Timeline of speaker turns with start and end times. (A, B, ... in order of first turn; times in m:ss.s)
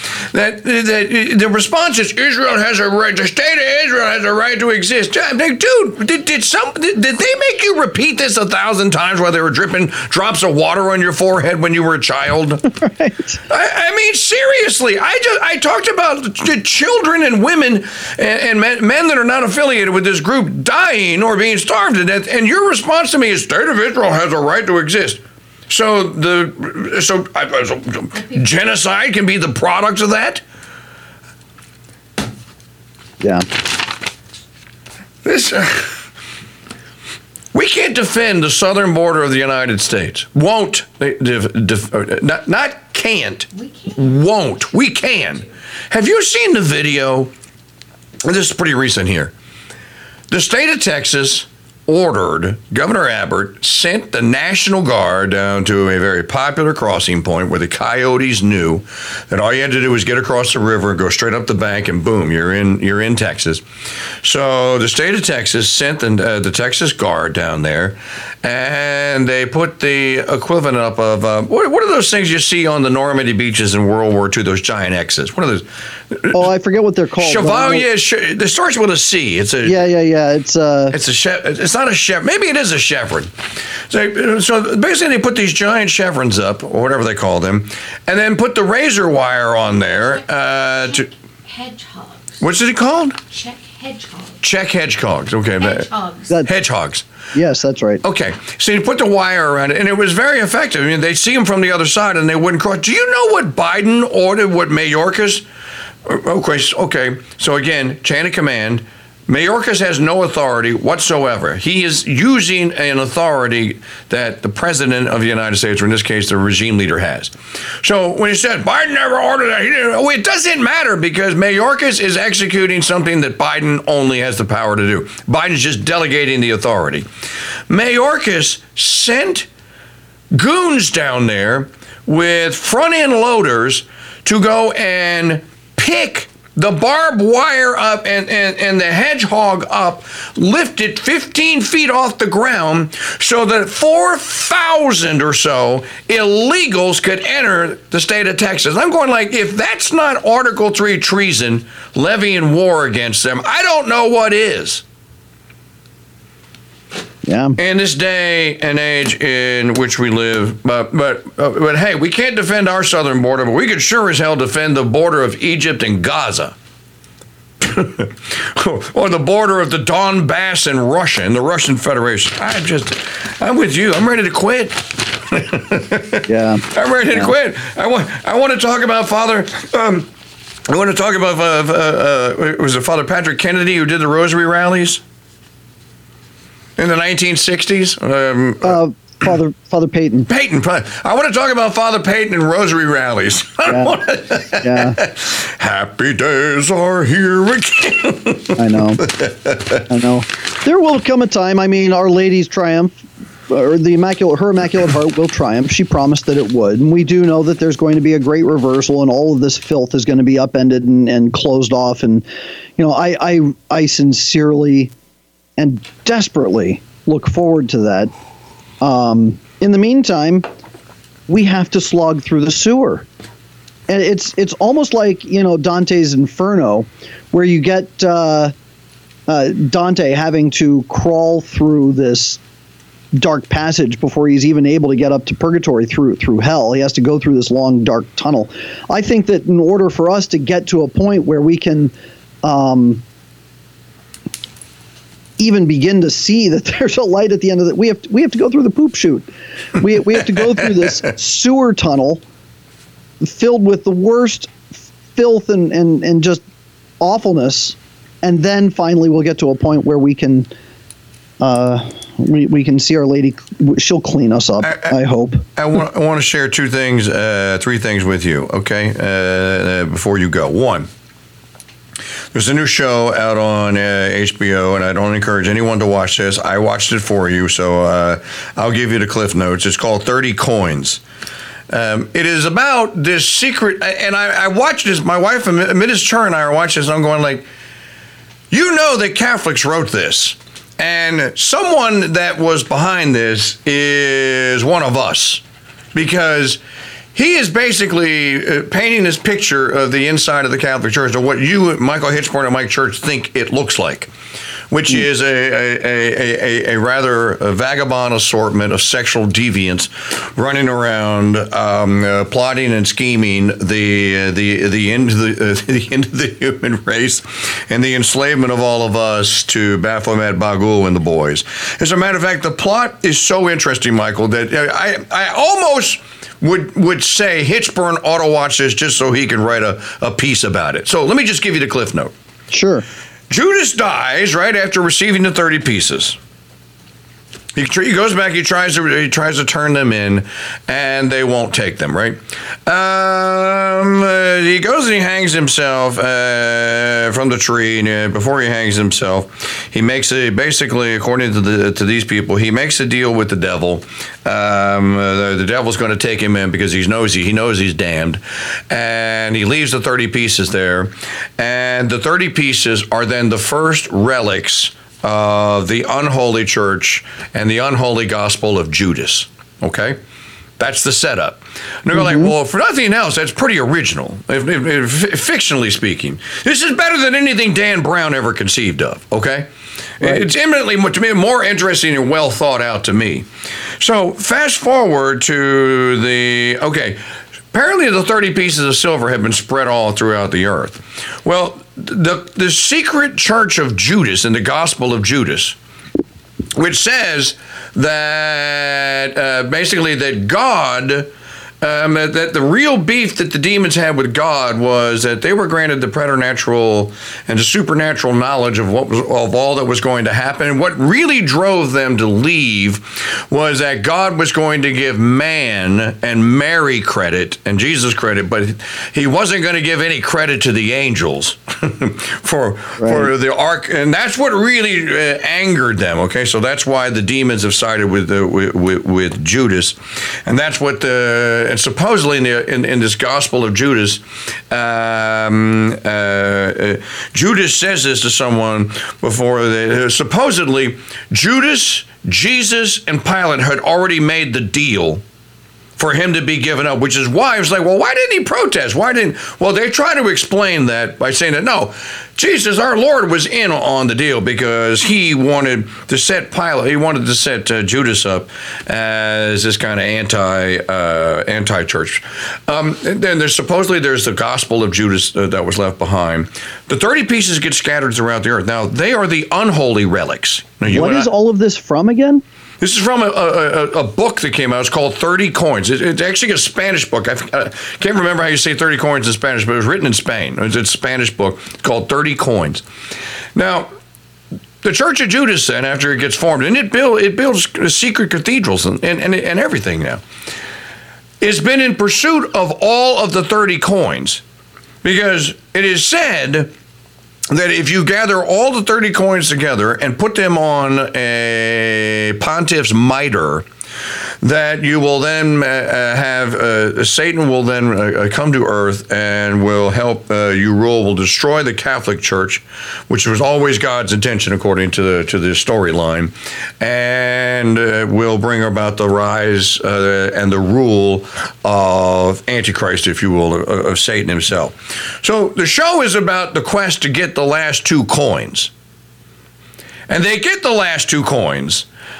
0:00.3-0:12.7 A
0:12.8-0:13.3 B
0:13.5-0:30.4 A
0:33.2-0:33.5 B
0:35.2-0:36.0 A
0:37.5-0:47.3 A
0:43.6-0:44.0 C
0:48.2-0:49.3 A
0:50.3-1:03.6 A
1:04.2-1:16.4 A
1:16.3-1:17.9 B
1:17.2-1:19.8 A
1:19.6-1:21.0 B
1:20.9-1:23.3 A
1:23.9-1:31.1 A
1:29.9-1:32.4 C
1:32.4-1:33.2 A
1:33.3-1:34.4 C
1:34.4-1:35.9 A
1:35.6-1:36.4 C
1:36.4-1:37.1 A
1:37.3-1:38.0 B
1:38.0-1:45.4 A
1:46.0-2:07.1 A
2:07.7-2:09.5 A
2:10.3-2:34.8 A
2:37.2-2:37.6 B
2:37.6-2:46.6 A
2:47.6-3:00.1 A
2:56.3-2:57.3 B
3:00.7-3:05.0 A
3:06.8-3:08.8 A
3:08.6-3:10.3 B
3:10.3-3:19.8 A
3:13.7-3:13.9 B
3:14.6-3:15.0 B
3:18.6-3:19.1 B
3:19.9-3:32.2 B
3:32.8-3:34.9 B
3:35.6-3:38.1 B
3:38.8-3:40.4 B
3:41.3-3:43.1 B
3:43.9-3:48.5 B
3:49.3-3:52.4 B
3:53.2-4:03.0 B
4:05.4-4:12.2 B
4:13.2-4:16.4 B
4:17.0-4:20.5 B
4:21.4-4:25.4 B
4:24.6-4:25.0 A
4:25.6-4:30.9 A
4:32.3-4:41.0 A
4:41.7-4:47.4 A
4:48.5-4:55.4 A
4:55.9-4:56.6 A
4:57.2-5:04.1 A
5:04.7-5:32.1 A
5:32.5-5:32.8 B
5:33.3-5:36.2 A
5:37.6-6:10.0 A
6:10.6-6:23.3 A
6:23.8-6:27.0 A
6:27.5-6:35.6 A
6:36.6-6:41.1 A
6:41.6-7:25.0 A
7:02.8-7:03.1 B
7:25.8-7:51.1 A
7:50.7-7:52.2 B
7:52.6-8:02.6 A
8:03.4-8:03.7 A
8:04.6-8:10.0 A
8:11.2-8:14.2 A
8:14.8-8:16.5 A
8:17.3-8:23.4 A
8:24.2-8:48.5 A
8:49.9-8:51.7 A